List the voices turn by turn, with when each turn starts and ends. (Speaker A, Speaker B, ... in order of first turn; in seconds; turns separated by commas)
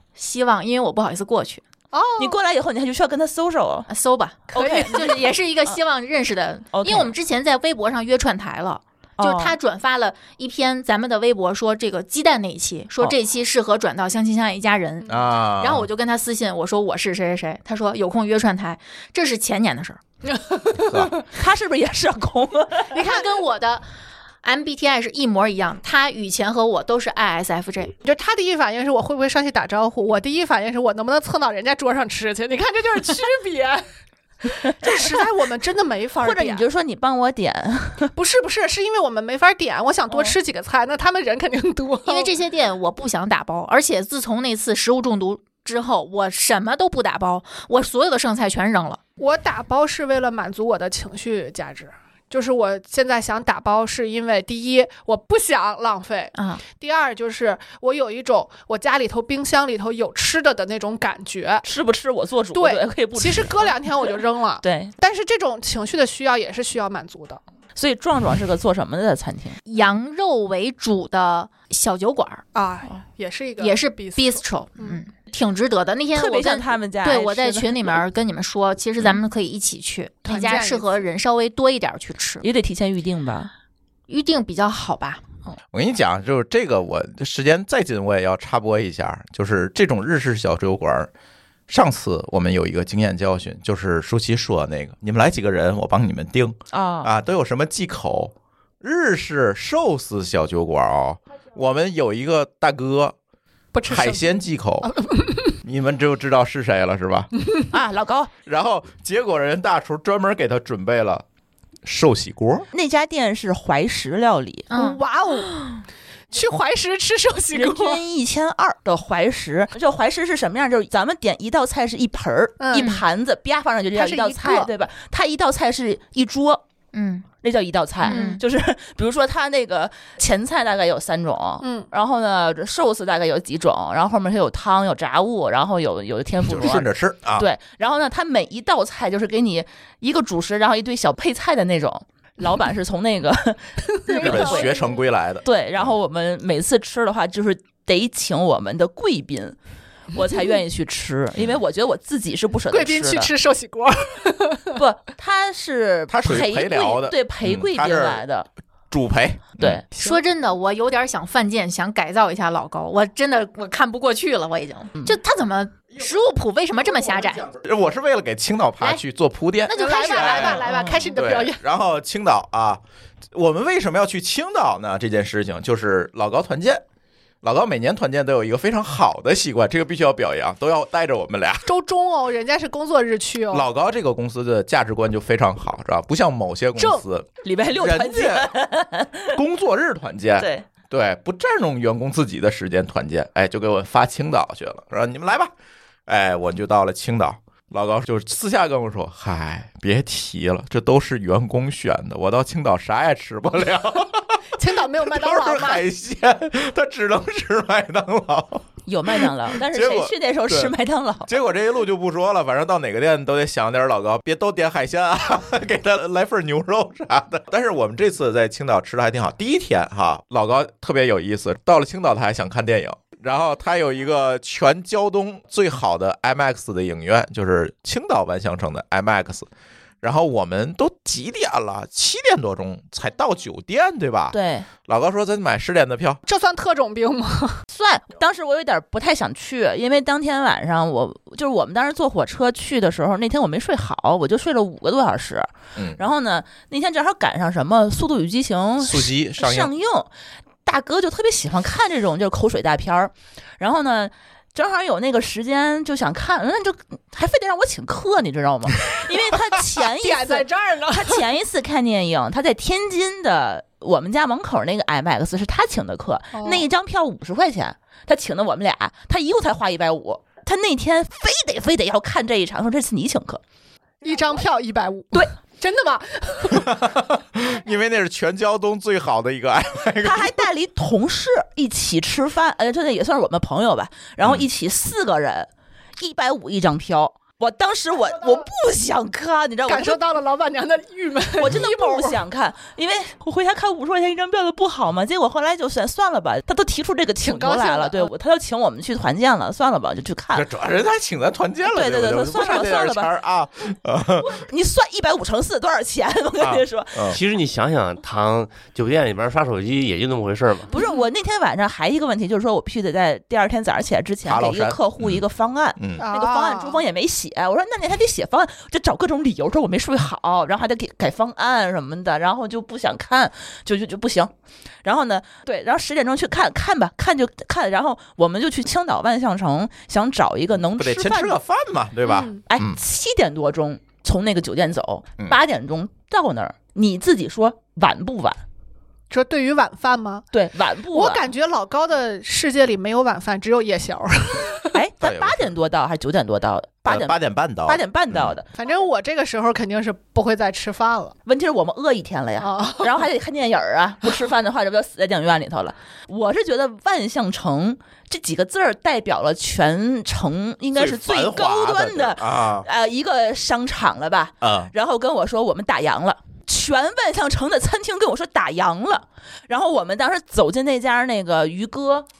Speaker A: 0.2-1.6, Speaker B: 1.9-2.4, Speaker C: 2.2-3.9, Speaker A: 3.9-20.0, Speaker C: 4.5-5.1, Speaker B: 4.5-5.2, Speaker C: 6.7-7.1, Speaker C: 9.2-9.6, Speaker D: 15.1-15.9, Speaker B: 20.3-21.2, Speaker D: 20.8-21.1, Speaker C: 21.3-22.9, Speaker B: 22.9-23.4, Speaker A: 22.9-23.8, Speaker A: 24.4-27.9, Speaker B: 28.0-33.9, Speaker B: 34.5-36.6, Speaker C: 36.2-38.1, Speaker B: 38.1-42.3, Speaker A: 42.0-49.0, Speaker B: 49.2-61.6, Speaker A: 56.3-56.6, Speaker C: 61.6-64.1, Speaker B: 62.5-67.4, Speaker C: 64.6-64.9, Speaker C: 67.8-69.6, Speaker A: 69.7-72.4, Speaker B: 72.5-75.0, Speaker A: 73.6-82.5, Speaker C: 76.1-78.0, Speaker B: 80.3-81.0, Speaker C: 82.4-83.5, Speaker A: 84.1-85.2, Speaker D: 85.7-91.1, Speaker D: 91.7-103.1, Speaker C: 96.7-97.1, Speaker B: 103.7-104.3, Speaker D: 103.8-104.9, Speaker B: 104.8-105.5, Speaker D: 105.6-107.3, Speaker C: 107.7-108.3, Speaker D: 108.5-111.2, Speaker D: 111.8-112.7, Speaker C: 112.7-114.8, Speaker A: 114.7-115.0, Speaker B: 114.8-115.5, Speaker B: 116.3-118.0, Speaker C: 117.5-126.6, Speaker B: 122.6-122.9, Speaker A: 122.7-123.0, Speaker B: 123.9-124.7, Speaker A: 126.9-127.2, Speaker C: 127.4-144.7, Speaker A: 128.0-128.4, Speaker B: 128.1-128.3, Speaker B: 131.6-131.9, Speaker D: 136.5-137.5, Speaker B: 143.9-144.9, Speaker D: 144.2-145.9, Speaker C: 145.4-149.6, Speaker C: 150.1-153.3, Speaker B: 152.7-154.8, Speaker C: 154.7-158.5, Speaker D: 156.1-158.2, Speaker D: 158.9-159.8, Speaker B: 159.9-160.2, Speaker A: 160.0-167.5, Speaker D: 167.4-176.8, Speaker A: 169.7-170.8, Speaker B: 169.7-171.6, Speaker C: 170.7-171.1, Speaker D: 177.4-181.7, Speaker B: 181.6-183.7, Speaker D: 183.5-188.6, Speaker B: 186.8-187.0, Speaker C: 187.4-189.4, Speaker D: 189.3-195.5, Speaker C: 190.4-190.7, Speaker D: 196.1-204.4, Speaker B: 204.6-205.8, Speaker D: 205.0-208.7, Speaker C: 208.8-211.3, Speaker D: 209.5-210.7, Speaker D: 211.3-229.5, Speaker D: 230.0-236.2, Speaker C: 234.3-234.7, Speaker B: 236.2-237.6, Speaker C: 237.7-250.1, Speaker D: 245.7-246.0, Speaker D: 248.8-249.7, Speaker C: 250.6-273.4, Speaker B: 259.8-261.2, Speaker B: 266.3-266.6, Speaker B: 274.0-276.8, Speaker D: 276.5-280.4, Speaker C: 280.0-290.0, Speaker B: 289.6-292.2, Speaker C: 291.4-300.5, Speaker B: 297.2-298.1, Speaker D: 300.3-304.4, Speaker C: 301.6-303.1, Speaker C: 304.2-307.2, Speaker D: 306.4-307.2, Speaker E: 307.1-310.7, Speaker C: 310.7-324.3, Speaker D: 314.2-315.2, Speaker D: 315.8-316.0, Speaker B: 316.0-316.8, Speaker C: 324.8-331.4, Speaker D: 330.8-332.8, Speaker B: 332.1-332.4, Speaker C: 332.3-338.4, Speaker B: 339.1-340.3, Speaker C: 340.3-341.3, Speaker B: 340.9-344.8, Speaker C: 344.7-348.5, Speaker D: 345.0-345.5, Speaker D: 346.9-348.3, Speaker B: 348.5-351.2, Speaker C: 351.2-372.1, Speaker B: 352.4-353.0, Speaker D: 360.7-362.7, Speaker D: 364.4-364.7